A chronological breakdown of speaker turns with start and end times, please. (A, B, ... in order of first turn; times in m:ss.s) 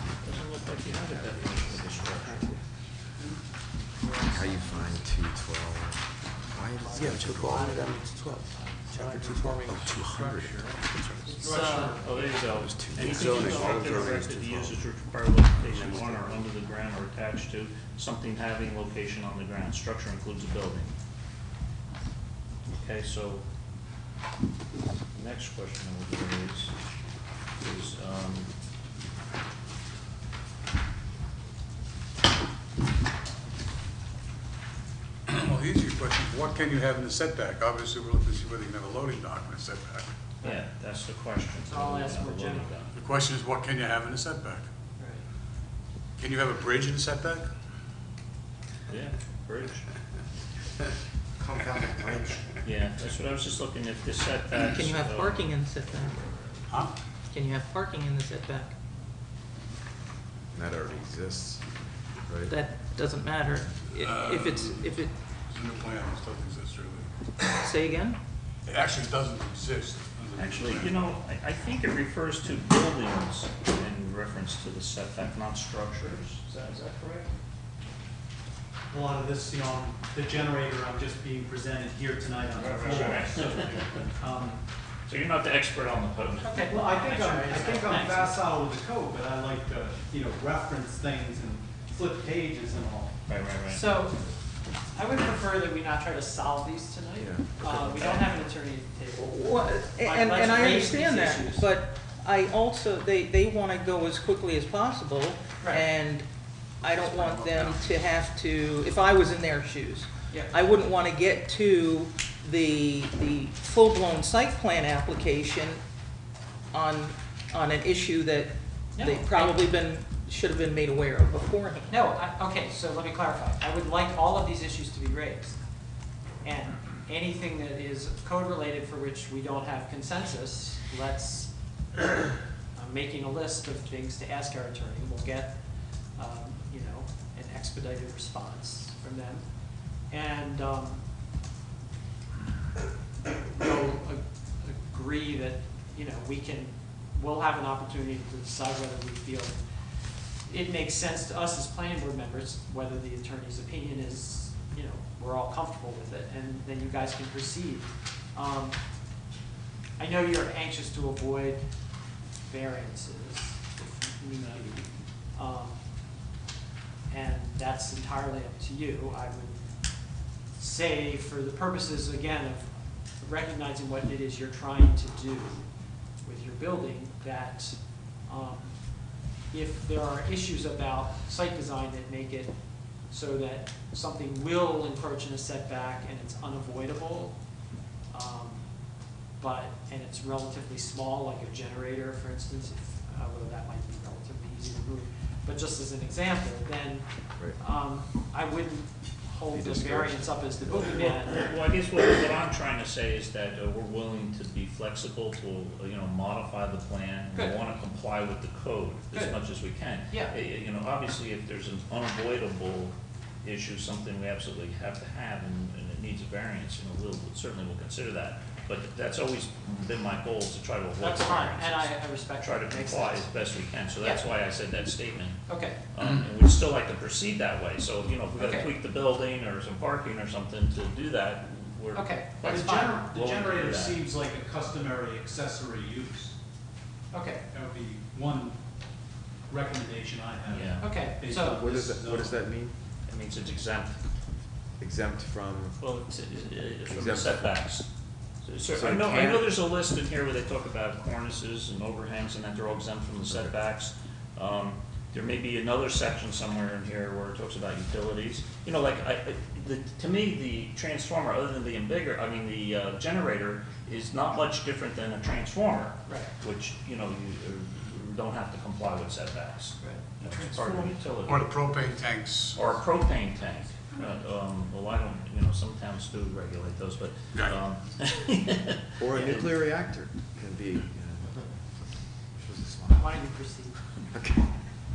0:00.2-0:02.5 A
0:00.9-0:02.6 B
0:04.0-0:05.0 C
0:04.3-0:07.7 B
0:06.7-0:09.3 C
0:07.0-0:10.6 D
0:09.6-0:10.5 B
0:10.9-0:20.9 A
0:11.2-0:12.4 C
0:11.4-0:11.9 D
0:11.4-0:12.0 E
0:12.5-0:13.8 B
0:13.0-0:13.9 C
0:13.1-0:14.8 D
0:13.2-0:14.2 F
0:15.7-0:16.3 D
0:22.7-0:23.4 A
0:25.1-0:26.7 A
0:27.6-0:28.5 A
0:35.3-0:40.1 F
0:40.4-0:42.9 A
0:41.6-0:43.0 C
0:43.0-0:44.7 F
0:45.0-0:45.3 C
0:46.2-0:47.5 F
0:48.9-0:49.9 A
0:51.4-0:52.4 B
0:52.6-0:55.5 A
0:54.6-0:56.2 G
0:56.7-0:56.9 F
0:57.3-0:58.7 G
1:00.5-1:01.7 B
1:02.2-1:02.5 B
1:02.5-1:05.1 G
1:03.9-1:05.0 F
1:05.5-1:07.1 F
1:07.5-1:08.2 G
1:08.6-1:11.0 F
1:10.3-1:17.3 A
1:18.9-1:24.6 E
1:22.5-1:23.9 A
1:25.1-1:27.2 A
1:26.4-1:28.4 C
1:26.6-1:33.2 E
1:33.3-1:33.9 A
1:33.7-1:34.3 C
1:34.9-1:41.8 C
1:37.2-1:37.5 B
1:37.6-1:38.2 A
1:39.2-1:46.2 G
1:46.8-1:55.8 G
1:50.3-1:50.6 C
1:56.7-2:01.9 G
1:58.9-1:59.7 C
2:01.9-2:05.6 C
2:06.4-2:11.5 C
2:12.7-2:15.6 C
2:16.1-2:19.5 C
2:20.0-2:21.0 C
2:23.4-2:29.6 C
2:30.4-2:38.8 C
2:40.0-2:41.7 C
2:42.4-2:45.8 C
2:47.1-2:49.6 C
2:50.5-2:55.7 C
2:56.2-2:58.8 C
2:59.5-3:07.4 C
3:08.1-3:08.7 C
3:09.4-3:21.4 C
3:19.5-3:21.0 B
3:20.7-3:54.0 A
3:29.1-3:29.4 C
3:41.0-3:44.2 C
3:45.5-3:45.8 C
3:48.4-3:48.7 C
3:51.9-3:53.0 C
3:52.4-3:56.3 E
3:57.1-3:57.4 C
3:57.5-3:58.6 E
3:59.5-4:02.4 E
4:00.5-4:00.9 A
4:00.8-4:01.6 C
4:01.5-4:02.7 B
4:03.0-4:04.0 A
4:04.8-4:05.8 B
4:05.8-4:07.8 A
4:06.8-4:07.5 B
4:08.4-4:31.5 A
4:08.7-4:09.6 B
4:26.0-4:26.3 C
4:29.8-4:30.9 C
4:31.2-4:32.7 F
4:32.5-4:39.5 A
4:37.3-4:37.6 F
4:39.0-4:41.5 B
4:42.3-4:43.1 B
4:42.9-4:43.8 C
4:44.1-4:44.5 B